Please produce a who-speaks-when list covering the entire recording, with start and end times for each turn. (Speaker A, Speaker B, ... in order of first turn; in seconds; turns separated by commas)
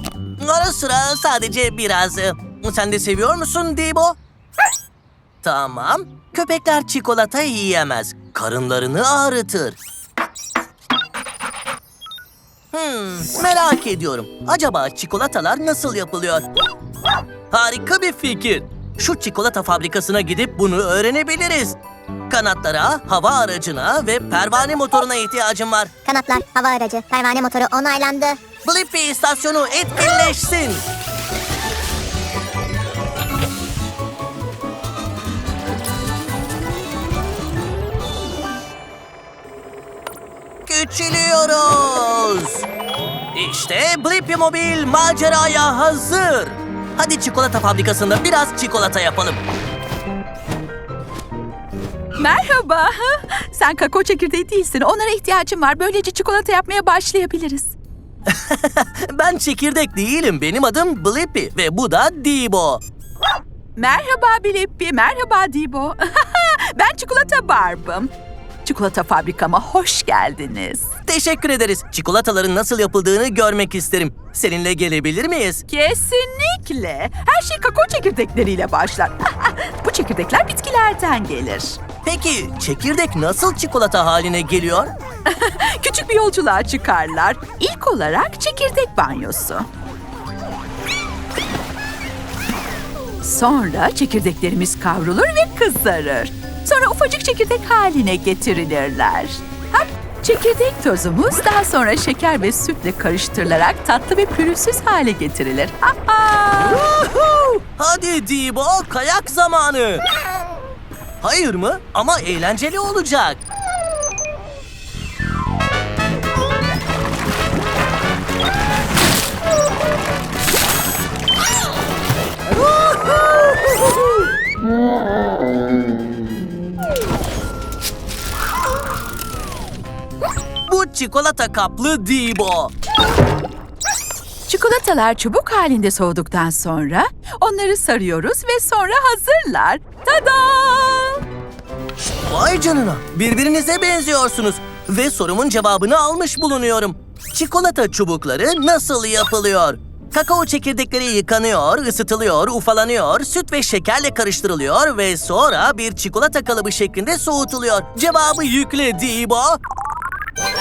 Speaker A: 0.4-4.2, Speaker A: 5.4-9.8, Speaker A: 12.7-16.4, Speaker A: 17.5-21.8, Speaker A: 22.3-25.9, Speaker B: 26.1-28.4, Speaker A: 28.6-30.9, Speaker A: 40.7-42.7, Speaker A: 43.3-49.4, Speaker C: 52.2-57.8, Speaker A: 58.3-62.8, Speaker C: 63.8-68.1, Speaker C: 68.6-71.0, Speaker A: 71.1-75.6, Speaker C: 75.7-81.8, Speaker A: 82.0-84.9, Speaker C: 85.3-89.7, Speaker C: 93.2-106.9, Speaker A: 106.8-110.0, Speaker A: 111.2-113.4, Speaker A: 130.7-132.7, Speaker C: 134.5-141.2, Speaker A: 142.2-159.6